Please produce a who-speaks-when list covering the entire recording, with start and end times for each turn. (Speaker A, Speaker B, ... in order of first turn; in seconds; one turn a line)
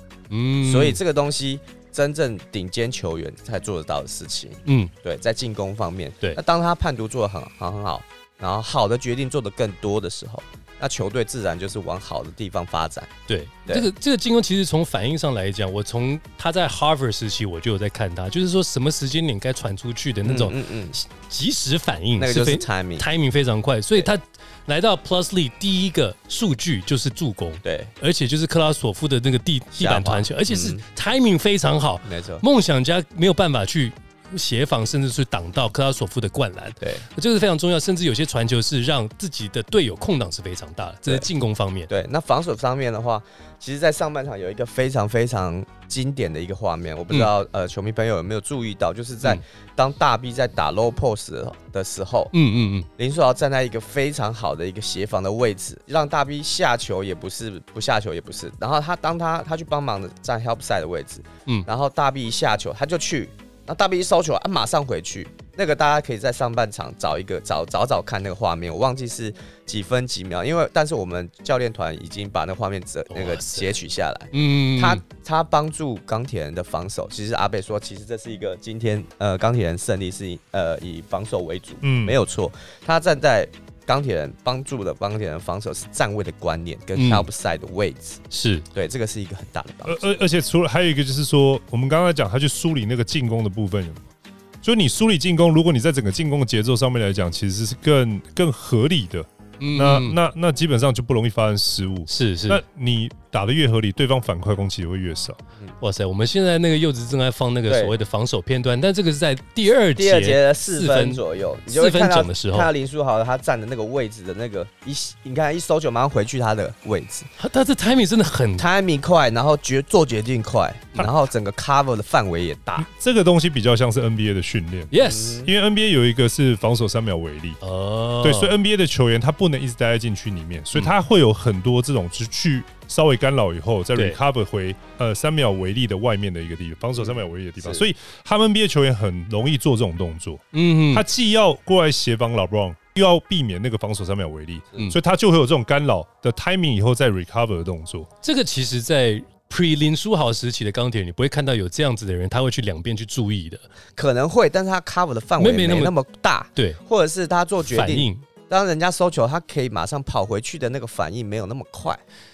Speaker A: 0.3-1.0
Speaker B: 0.6-13.1
Speaker A: 4.7-4.9
Speaker A: 13.3-41.9
Speaker B: 20.2-21.0
Speaker B: 22.2-23.1
Speaker B: 27.6-27.9
Speaker B: 29.8-30.8
Speaker B: 32.0-32.4
Speaker B: 41.9-52.3
Speaker A: 52.3-52.9
Speaker B: 53.0-88.2
Speaker A: 73.1-73.7
Speaker A: 74.3-75.0
Speaker C: 81.8-82.2
Speaker A: 86.9-87.3
Speaker A: 88.3-88.7
Speaker B: 88.7-90.0
Speaker C: 89.8-94.1
Speaker C: 94.6-105.4
Speaker A: 99.6-100.2
Speaker A: 102.1-102.6
Speaker A: 105.8-112.7
Speaker B: 107.7-107.9
Speaker B: 110.0-117.3
Speaker A: 117.4-118.7
Speaker B: 118.6-122.9
Speaker C: 122.8-127.6
Speaker A: 124.9-125.4
Speaker B: 125.0-125.5
Speaker A: 127.6-128.5
Speaker C: 128.2-148.1
Speaker A: 140.5-141.0
Speaker A: 148.2-153.7
Speaker B: 153.9-162.0
Speaker A: 155.4-155.9
Speaker A: 157.6-158.2